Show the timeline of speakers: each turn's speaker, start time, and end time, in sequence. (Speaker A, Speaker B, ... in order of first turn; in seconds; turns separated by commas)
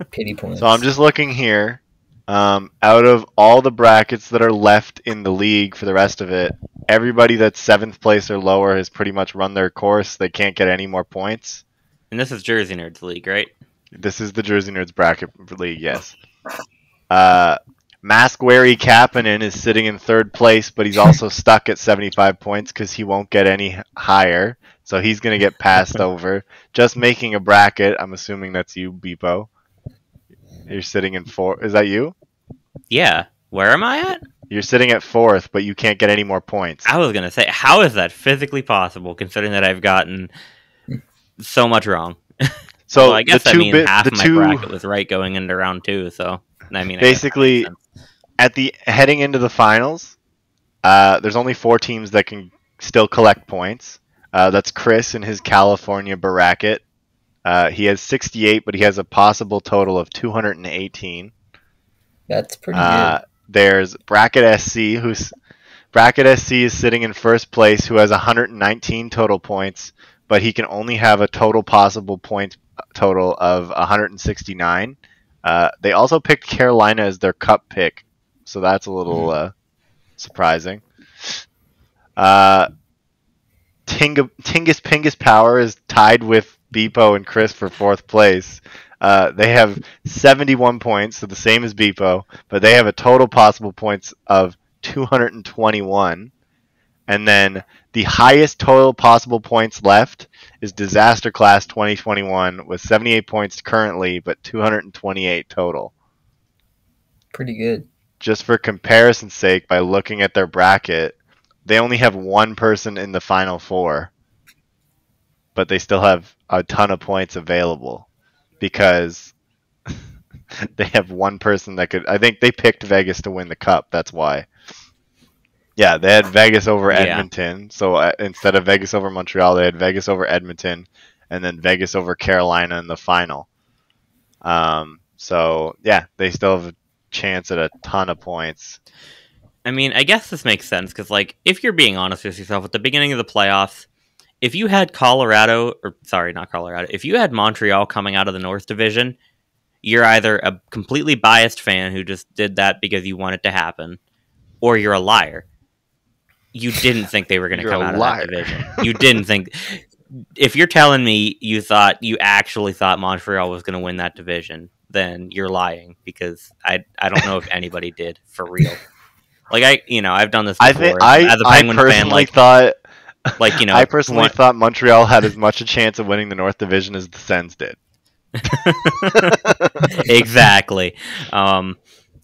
Speaker A: 0.1-0.8, Speaker B: 0.6-11.6, Speaker C: 12.1-13.5, Speaker B: 13.9-16.2, Speaker B: 17.1-29.5, Speaker B: 30.7-32.1, Speaker C: 32.9-34.2, Speaker B: 34.5-36.9, Speaker C: 36.9-40.3, Speaker C: 41.4-47.8, Speaker B: 42.9-44.6, Speaker B: 47.0-47.7, Speaker B: 48.4-50.1, Speaker B: 50.8-56.8, Speaker B: 57.5-61.3, Speaker A: 62.3-63.2, Speaker B: 62.7-65.3, Speaker B: 65.9-79.5, Speaker B: 80.2-81.4, Speaker B: 82.2-82.7, Speaker B: 83.9-96.3, Speaker B: 97.1-105.9, Speaker A: 107.3-107.9, Speaker B: 108.2-114.1, Speaker B: 115.5-118.0, Speaker B: 118.6-119.3, Speaker B: 120.6-124.5, Speaker B: 125.8-133.5, Speaker C: 126.9-127.3, Speaker B: 134.4-138.8, Speaker C: 139.6-143.9, Speaker C: 144.4-149.2, Speaker C: 149.8-154.0, Speaker C: 154.6-155.4, Speaker C: 156.5-168.8, Speaker B: 157.5-159.0, Speaker C: 169.5-172.3, Speaker B: 170.6-177.8, Speaker C: 173.4-174.4, Speaker C: 178.4-179.4, Speaker B: 178.5-180.1, Speaker C: 179.9-181.8